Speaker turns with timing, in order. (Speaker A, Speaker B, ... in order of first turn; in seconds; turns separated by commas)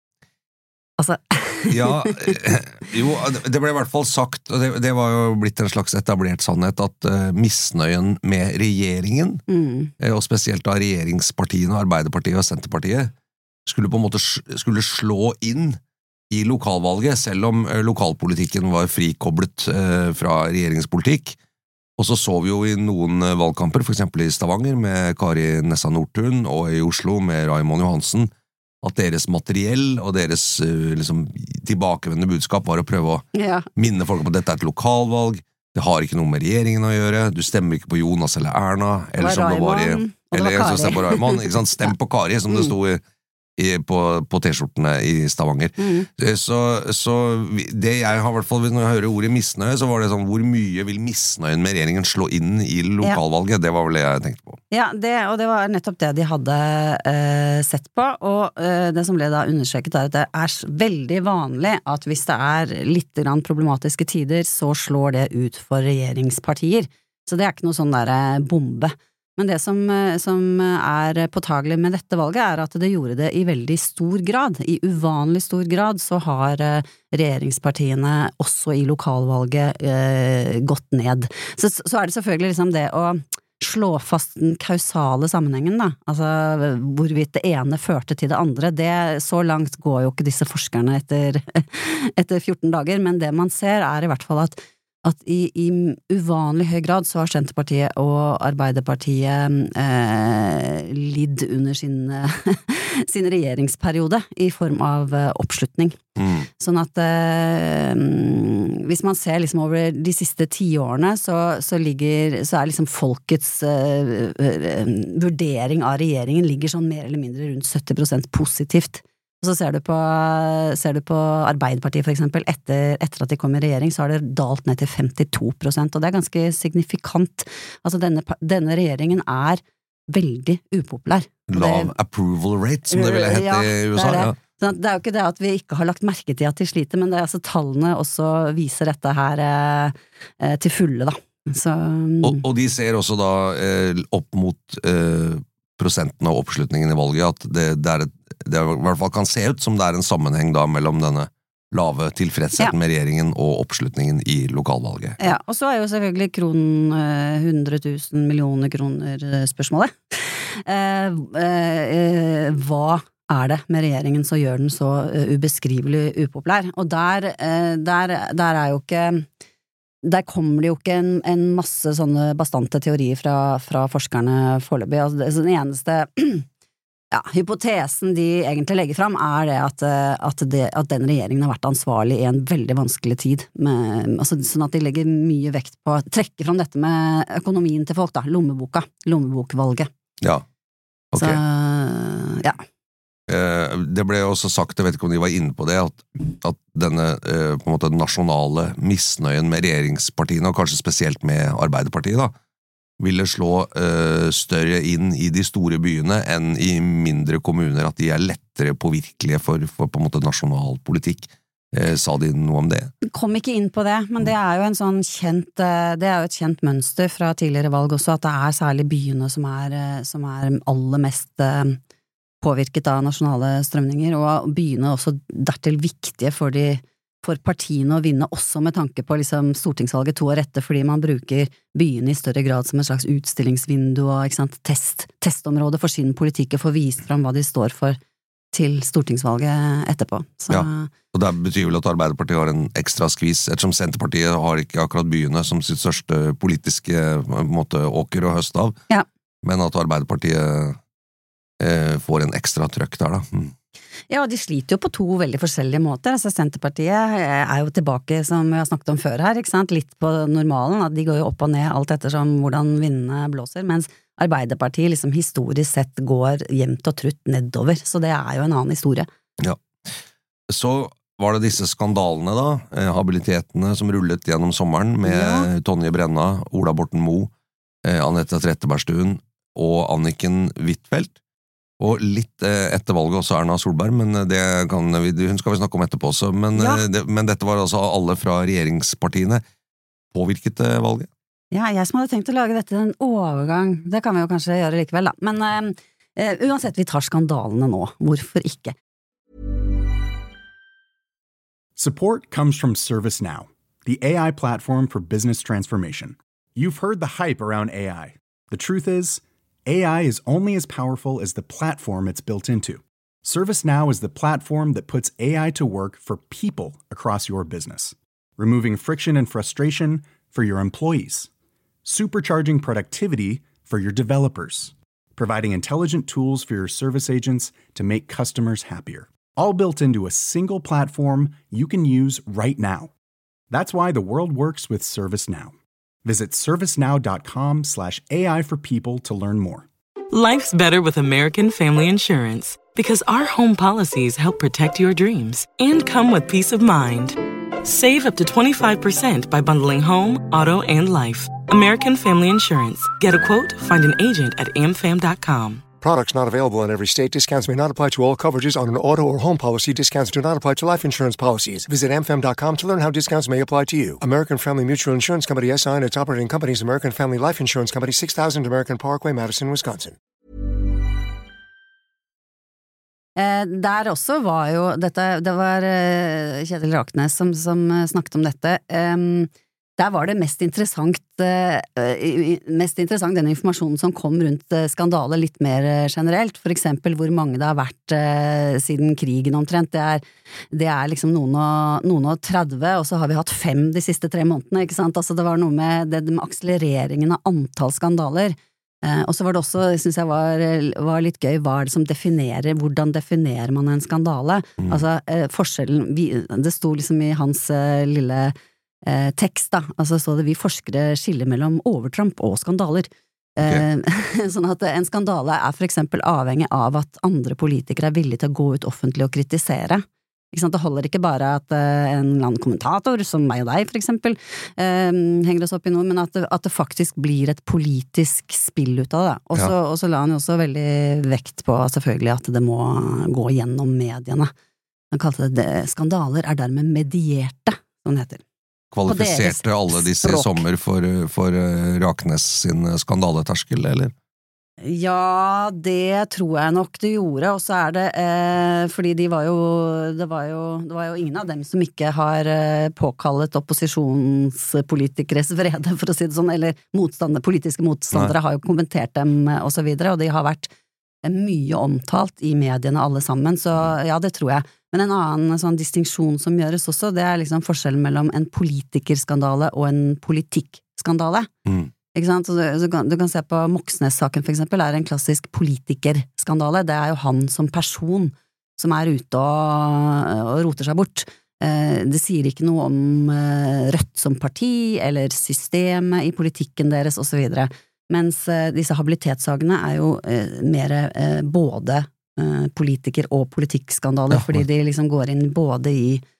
Speaker A: 1.0-2.4, Speaker B: 1.7-9.4, Speaker A: 9.5-9.9, Speaker B: 10.0-13.1, Speaker B: 13.7-15.8, Speaker B: 16.3-21.4, Speaker B: 22.0-28.3, Speaker B: 28.8-33.2, Speaker A: 33.3-33.7, Speaker B: 33.8-43.0, Speaker A: 39.2-41.5, Speaker B: 43.6-54.6, Speaker A: 45.8-46.1, Speaker A: 54.7-106.0, Speaker B: 106.2-106.5, Speaker A: 106.6-131.9, Speaker B: 131.5-134.3, Speaker A: 132.9-142.4, Speaker B: 142.2-155.3, Speaker A: 155.2-169.2, Speaker A: 170.0-176.4, Speaker A: 177.1-189.9, Speaker B: 191.1-191.4, Speaker A: 191.2-192.6, Speaker B: 193.3-202.3, Speaker B: 203.0-212.9, Speaker A: 213.0-221.8, Speaker A: 222.4-238.0, Speaker A: 238.5-240.9, Speaker B: 240.5-248.8, Speaker B: 249.4-250.8, Speaker B: 251.6-253.5, Speaker A: 254.1-269.1, Speaker B: 270.5-277.3, Speaker A: 275.0-275.5, Speaker B: 277.8-281.1, Speaker B: 281.8-289.4, Speaker A: 286.6-286.8, Speaker B: 290.1-291.1, Speaker A: 291.5-298.7, Speaker C: 301.8-321.3, Speaker C: 321.8-332.9, Speaker C: 333.5-339.7, Speaker D: 340.1-355.6, Speaker E: 355.8-369.9, Speaker A: 373.2-408.3, Speaker A: 408.9-434.3, Speaker A: 434.9-438.2, Speaker B: 438.7-443.9, Speaker A: 438.9-440.4, Speaker A: 444.6-460.5, Speaker A: 461.0-471.3, Speaker B: 471.4-471.7, Speaker A: 471.9-496.0, Speaker B: 494.1-494.4